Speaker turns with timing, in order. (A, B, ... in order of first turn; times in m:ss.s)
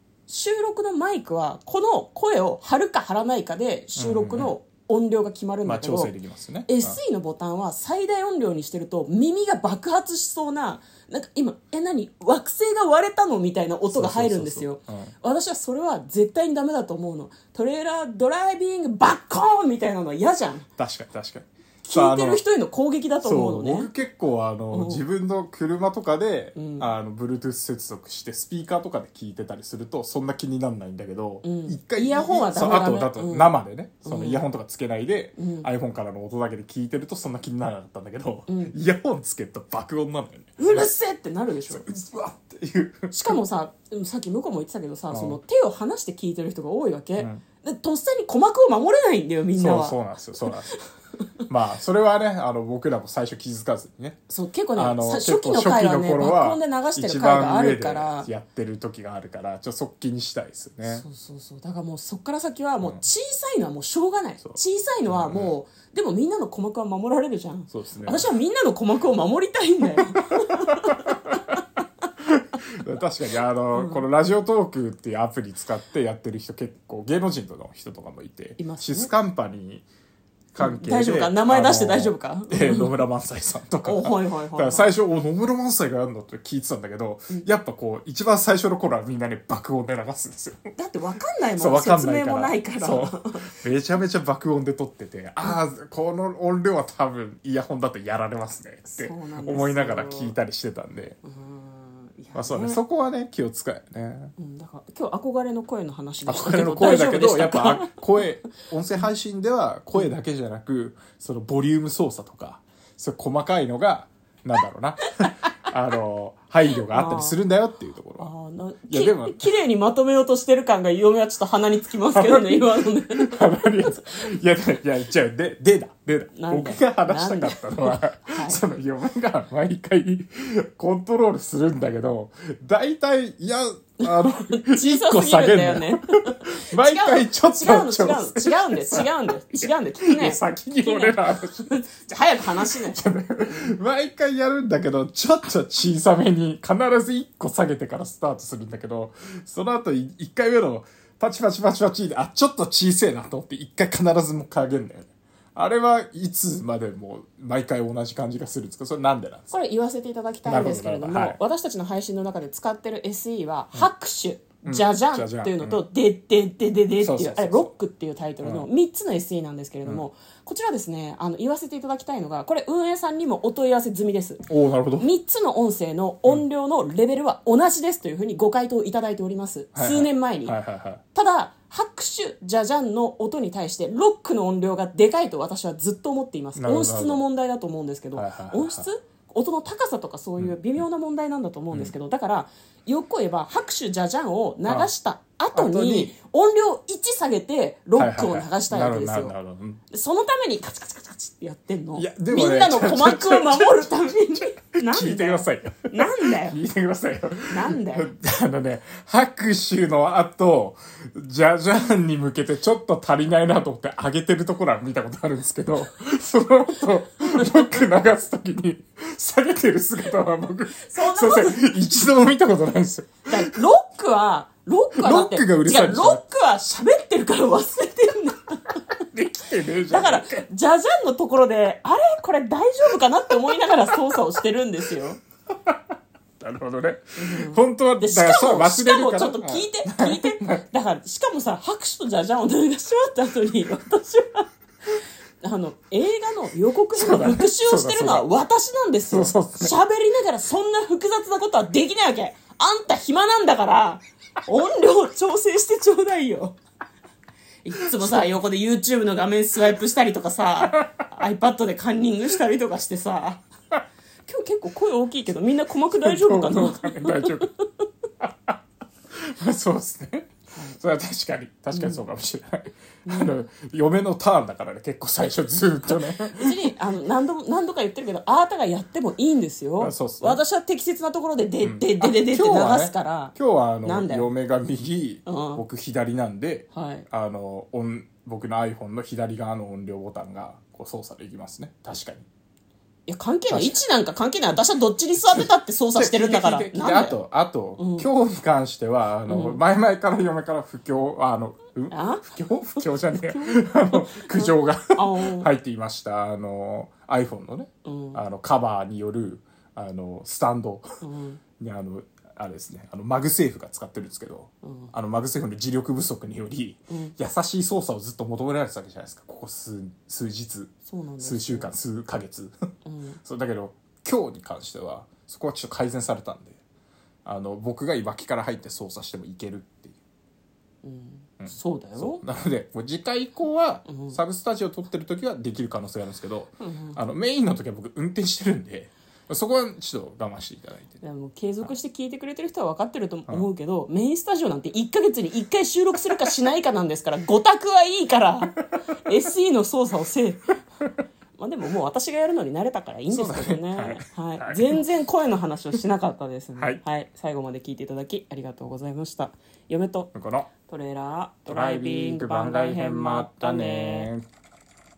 0:00.3-0:06.1 A
0:04.0-0:04.5 B
0:05.6-0:07.0 B
0:06.7-0:20.7 A
0:13.9-0:15.1 B
0:20.8-0:22.4 B
0:21.8-0:23.9 A
0:23.2-0:40.9 B
0:24.7-0:25.0 A
0:26.6-0:26.9 A
0:31.4-0:34.4 A
0:35.4-0:35.7 A
0:38.5-0:38.8 A
0:40.6-0:41.9 A
0:41.7-0:43.4 B
0:43.1-0:50.6 A
0:45.1-0:45.4 B
0:47.2-0:47.4 B
0:49.6-0:50.7 B
0:51.5-0:54.2 B
0:54.3-0:58.3 A
0:54.8-1:01.0 B
1:00.8-1:11.3 A
1:04.4-1:05.5 B
1:07.7-1:08.3 B
1:10.7-1:11.4 B
1:12.2-1:19.9 B
1:13.7-1:14.0 A
1:18.6-1:19.1 A
1:20.5-1:30.6 B
1:20.6-1:23.0 A
1:23.9-1:24.9 A
1:30.8-1:33.5 A
1:31.6-1:41.2 B
1:38.9-1:40.4 A
1:41.2-1:42.8 A
1:42.4-1:44.3 B
1:44.4-1:48.0 A
1:46.3-1:58.3 B
1:56.9-1:57.4 A
1:58.2-2:04.0 A
1:58.9-1:59.5 B
2:02.1-2:21.8 B
2:06.4-2:08.6 A
2:14.0-2:23.7 A
2:22.6-2:39.5 B
2:39.5-2:54.4 A
2:40.4-2:41.4 B
2:44.6-2:45.8 B
2:47.0-2:47.7 B
2:48.4-2:48.7 B
2:54.5-2:55.1 B
2:55.0-3:00.6 A
2:59.8-3:01.0 B
3:01.1-3:19.3 A
3:06.6-3:07.2 B
3:08.2-3:08.9 B
3:14.6-3:14.9 B
3:15.5-3:16.1 B
3:18.0-3:19.8 B
3:19.9-3:26.6 A
3:22.0-3:43.6 B
3:27.5-3:28.1 A
3:40.8-3:41.6 A
3:43.3-3:48.8 A
3:45.0-3:46.2 B
3:49.1-3:50.5 B
3:49.9-3:55.2 A
3:56.4-4:00.6 B
3:57.2-4:16.6 A
4:07.0-4:08.3 B
4:09.1-4:09.8 B
4:17.6-4:23.4 A
4:17.9-4:18.3 B
4:24.3-4:27.7 A
4:25.9-4:27.5 B
4:28.2-4:28.6 B
4:29.1-4:36.7 B
4:31.7-4:32.0 A
4:33.1-4:33.4 A
4:36.3-4:44.3 A
4:39.8-4:40.4 B
4:41.6-4:52.3 B
4:45.3-4:45.6 A
4:46.7-4:47.1 A
4:53.1-4:57.2 A
4:53.5-4:53.8 B
4:55.3-5:10.9 B
4:57.8-4:58.1 A
4:59.3-4:59.6 A
5:01.9-5:05.5 A
5:07.8-5:08.2 A
5:11.0-5:11.4 A
5:11.6-5:22.5 B
5:14.6-5:14.9 A
5:16.9-5:17.2 A
5:20.9-5:21.7 A
5:22.8-5:23.2 A
5:23.2-5:26.6 B
5:27.2-5:30.0 B
5:30.8-5:32.2 A
5:31.4-5:41.0 B
5:33.9-5:34.2 A
5:36.6-5:37.0 A
5:41.0-5:50.6 A
5:51.4-6:00.1 A
5:53.1-5:54.8 B
6:00.1-6:00.5 B
6:00.6-6:04.1 A
6:01.5-6:04.2 B